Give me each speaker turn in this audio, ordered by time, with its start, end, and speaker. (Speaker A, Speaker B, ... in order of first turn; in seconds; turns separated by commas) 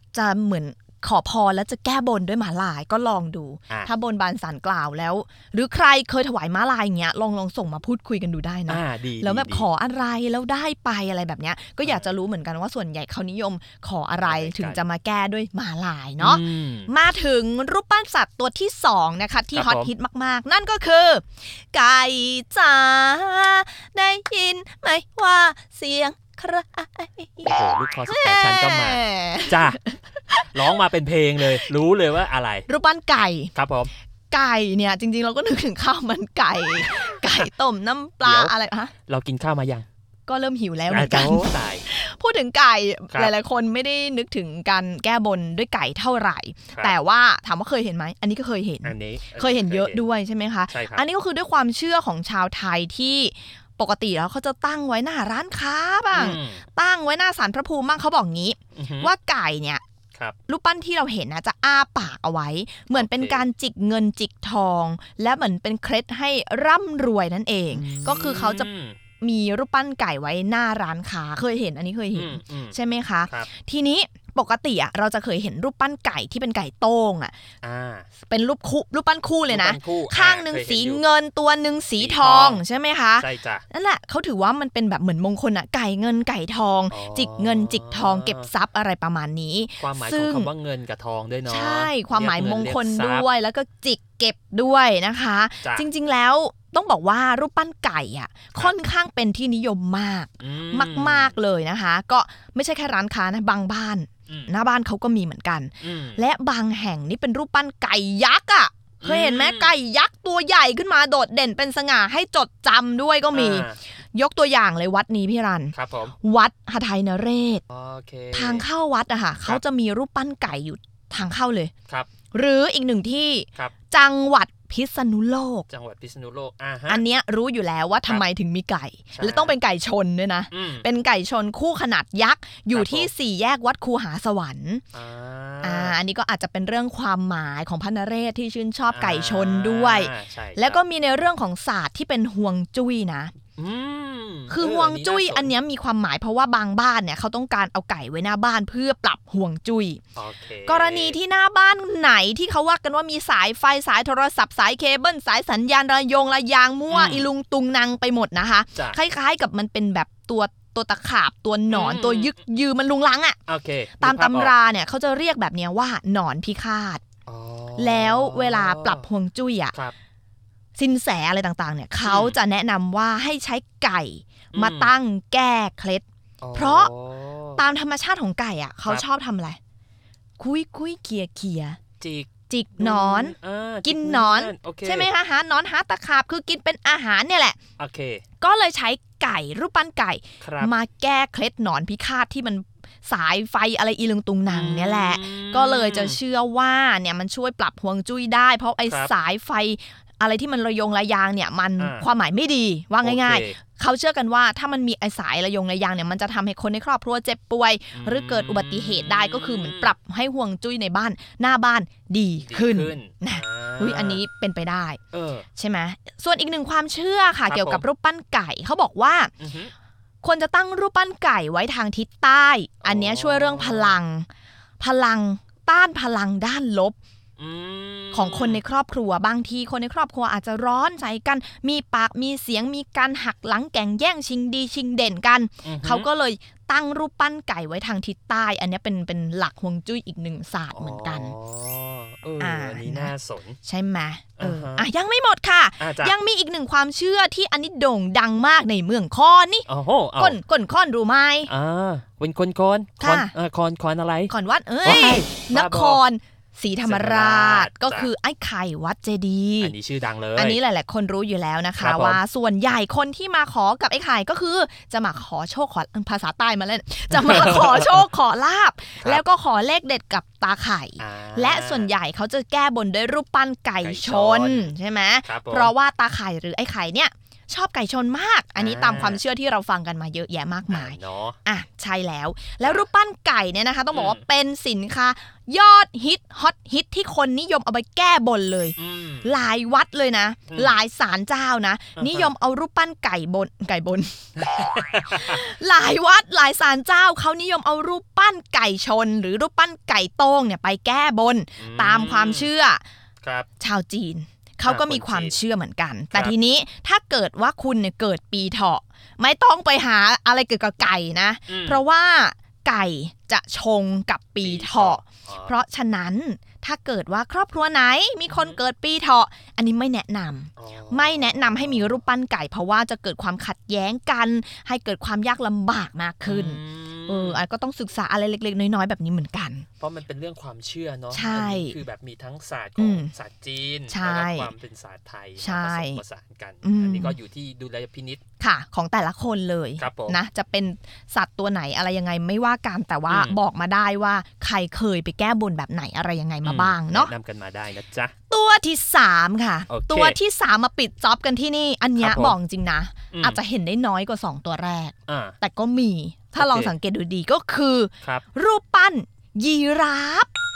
Speaker A: 0.1-30.5, Speaker B: 8.7-9.7, Speaker B: 14.2-14.8, Speaker B: 16.2-16.9, Speaker B: 19.5-19.9, Speaker B: 27.4-29.8, Speaker B: 30.5-32.6, Speaker A: 32.7-33.5, Speaker B: 33.5-33.9, Speaker A: 34.3-38.9, Speaker B: 38.2-38.5, Speaker B: 39.0-39.9, Speaker A: 40.3-59.8, Speaker B: 40.9-41.8, Speaker B: 48.8-50.0, Speaker B: 50.7-51.0, Speaker B: 56.1-56.6, Speaker B: 58.7-59.1, Speaker A: 60.5-68.7, Speaker B: 62.9-63.4, Speaker B: 67.7-69.0, Speaker A: 69.2-77.3, Speaker B: 72.1-72.8, Speaker B: 77.6-78.1, Speaker A: 78.2-90.5, Speaker B: 79.5-81.0, Speaker B: 82.0-82.6, Speaker B: 83.2-83.6, Speaker B: 86.9-88.5, Speaker B: 89.8-93.3, Speaker A: 91.5-117.6, Speaker B: 100.4-101.3, Speaker B: 105.8-106.2, Speaker B: 109.0-109.7, Speaker B: 113.3-113.8, Speaker B: 115.7-116.1, Speaker B: 117.7-118.7, Speaker A: 118.3-121.7, Speaker A: 122.3-125.7, Speaker B: 125.7-127.0, Speaker A: 126.9-134.8, Speaker B: 129.1-129.6, Speaker B: 130.5-130.8, Speaker B: 132.7-133.1, Speaker B: 134.9-135.9, Speaker A: 135.6-143.3, Speaker B: 138.9-140.8, Speaker B: 143.6-145.5, Speaker A: 144.5-150.0, Speaker B: 150.2-151.2, Speaker A: 150.7-163.4, Speaker B: 156.9-157.3, Speaker B: 161.7-162.3, Speaker B: 163.5-164.5, Speaker A: 164.0-167.0, Speaker B: 167.2-169.1, Speaker A: 167.8-169.7, Speaker A: 170.8-176.0, Speaker B: 172.0-172.3, Speaker B: 174.5-174.9, Speaker B: 176.4-177.6, Speaker A: 176.5-176.9, Speaker A: 177.6-179.6, Speaker A: 180.4-181.8, Speaker B: 182.0-185.1, Speaker A: 182.5-187.6, Speaker B: 187.8-188.2, Speaker A: 188.4-215.0, Speaker B: 190.4-190.7, Speaker B: 194.5-196.2, Speaker B: 201.8-202.1, Speaker B: 203.0-203.6, Speaker B: 207.9-209.9, Speaker B: 212.4-214.2, Speaker B: 215.1-215.4, Speaker A: 215.6-219.3, Speaker B: 217.5-217.8, Speaker B: 219.4-219.7, Speaker A: 220.2-224.3, Speaker B: 222.8-224.0, Speaker A: 224.8-226.9, Speaker B: 227.4-228.6, Speaker A: 228.1-241.3, Speaker B: 235.6-236.1, Speaker B: 240.7-243.6, Speaker A: 242.4-243.1, Speaker A: 243.6-249.7, Speaker B: 244.4-244.9, Speaker B: 245.8-246.1, Speaker B: 249.7-250.4, Speaker A: 250.2-251.5, Speaker B: 251.5-254.3, Speaker A: 253.0-253.3, Speaker A: 254.3-259.7, Speaker B: 254.8-256.0, Speaker B: 256.8-258.1, Speaker B: 259.6-260.6, Speaker A: 260.4-302.8, Speaker B: 261.8-262.2, Speaker B: 267.1-268.1, Speaker B: 271.0-271.9, Speaker B: 273.8-274.7, Speaker B: 275.2-275.7, Speaker B: 278.6-279.2, Speaker B: 280.7-281.4, Speaker B: 283.9-284.2, Speaker B: 288.8-289.3, Speaker B: 290.5-290.8, Speaker B: 292.0-292.3, Speaker B: 294.4-295.4, Speaker B: 301.6-302.5, Speaker B: 303.2-303.5, Speaker A: 303.6-329.6, Speaker B: 304.6-305.4, Speaker B: 311.5-311.8, Speaker B: 314.4-315.5, Speaker B: 318.3-318.6, Speaker B: 320.6-322.0, Speaker B: 326.2-327.4, Speaker B: 329.8-338.2, Speaker A: 331.1-331.8, Speaker A: 332.8-333.1, Speaker A: 333.9-334.5, Speaker A: 335.4-336.0, Speaker A: 336.6-337.2, Speaker A: 338.4-347.1, Speaker B: 339.8-340.2, Speaker B: 343.1-343.4, Speaker B: 346.4-348.1, Speaker A: 348.3-360.3, Speaker B: 349.7-350.2, Speaker B: 352.0-352.4, Speaker B: 353.1-353.4, Speaker B: 355.1-355.4, Speaker B: 356.3-356.7